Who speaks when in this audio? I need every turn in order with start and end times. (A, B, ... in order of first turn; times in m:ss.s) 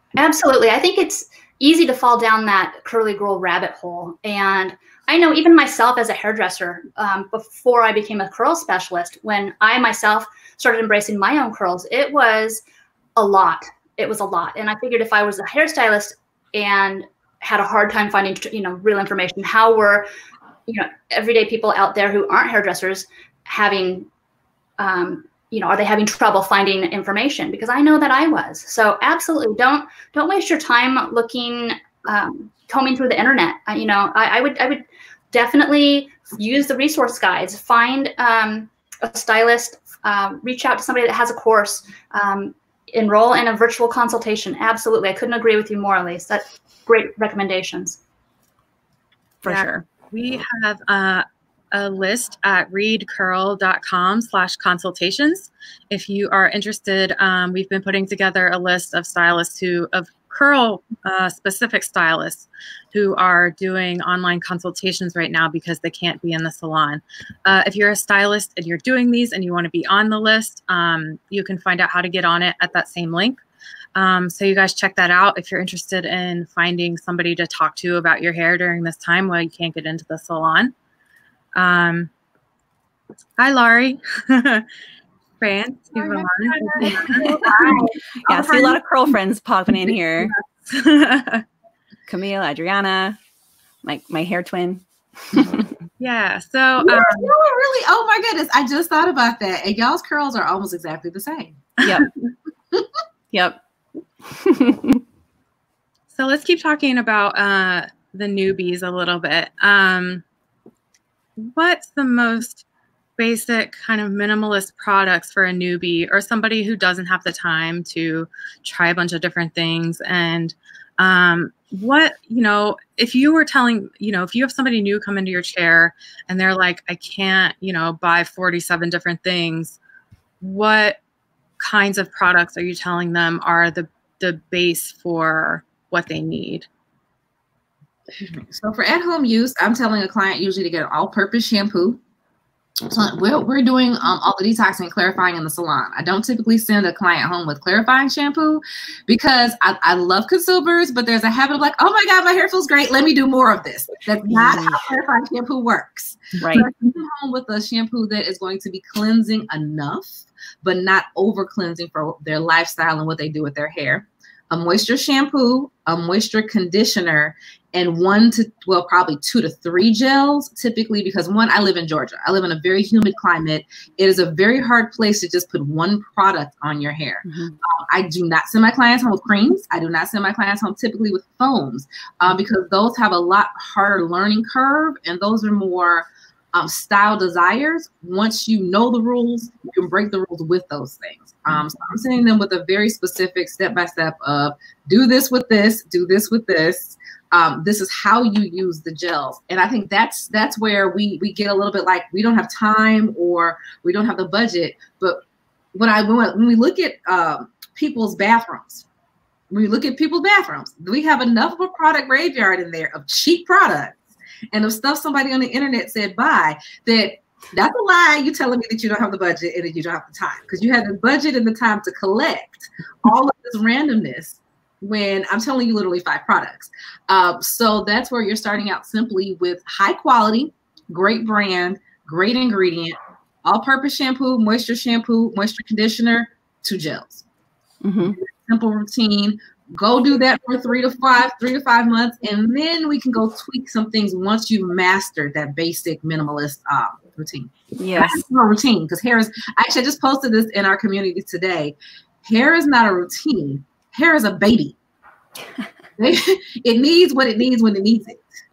0:00.2-0:12.6 A
0:13.2-0:20.1 A
0:20.7-0:24.1 A
0:24.8-0:48.0 A
0:49.4-0:49.8 B
0:49.4-1:13.4 C
1:13.9-1:20.7 C
1:21.5-1:22.1 C
1:23.4-1:24.6 C
1:25.4-1:27.8 C
1:25.9-1:28.8 D
1:26.8-1:27.7 B
1:28.3-1:30.3 B
1:30.6-1:31.4 C
1:32.1-1:33.2 B
1:33.8-1:35.7 B
1:36.0-1:37.3 C
1:36.8-1:41.6 D
1:41.8-1:42.1 B
1:43.3-1:43.6 B
1:44.3-1:45.0 B
1:46.1-1:50.2 C
1:51.4-1:52.6 C
1:53.2-2:09.8 C
2:10.4-2:11.0 C
2:11.6-2:16.7 C
2:18.1-2:22.0 D
2:22.9-3:25.2 D
2:34.3-2:34.8 B
2:36.4-2:36.6 B
2:57.2-2:57.6 B
3:25.7-3:28.8 D
3:29.5-3:34.0 D
3:34.5-3:57.2 D
3:57.8-3:58.2 B
3:58.0-4:14.8 D
4:07.8-4:08.2 B
4:16.0-4:18.2 D